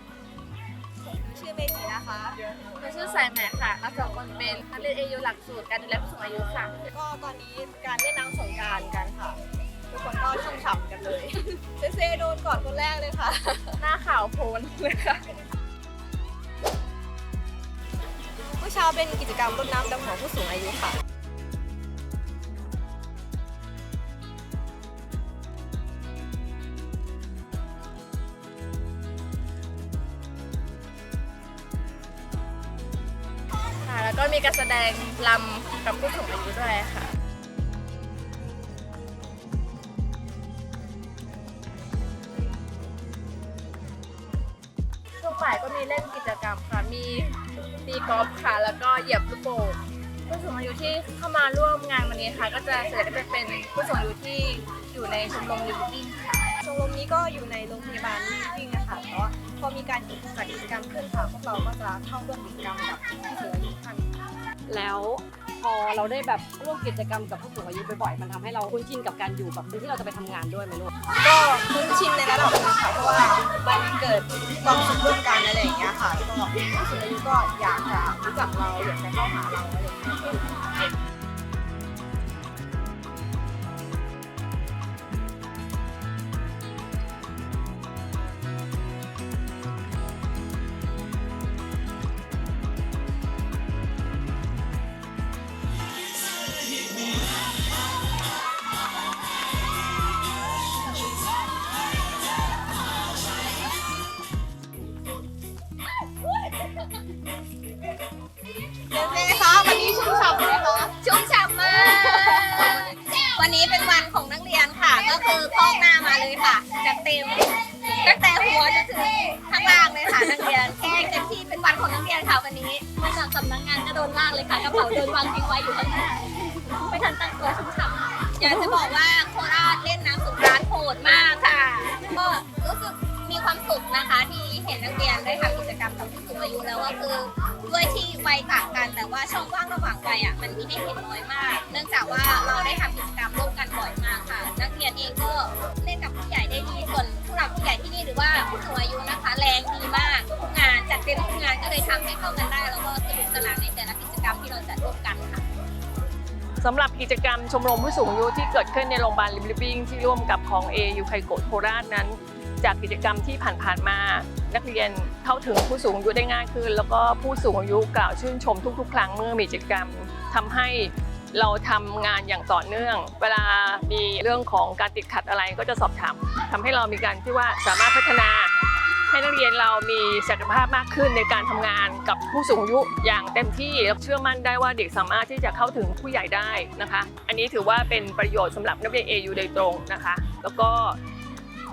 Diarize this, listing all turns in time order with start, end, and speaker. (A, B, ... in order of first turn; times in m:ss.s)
0:01.0-0:02.4 A
0:02.8-0:06.8 B
0:06.8-0:13.8 A
0:13.8-0:15.2 B
0:18.6-0:21.0 A
0:33.8-0:37.1 B
0:45.2-0:56.5 B
0:56.6-1:04.1 A
1:04.7-1:10.9 C
1:11.2-1:20.5 A
1:48.9-1:50.9 A
1:50.9-2:35.4 D
2:36.6-2:58.5 E
2:59.1-3:11.0 E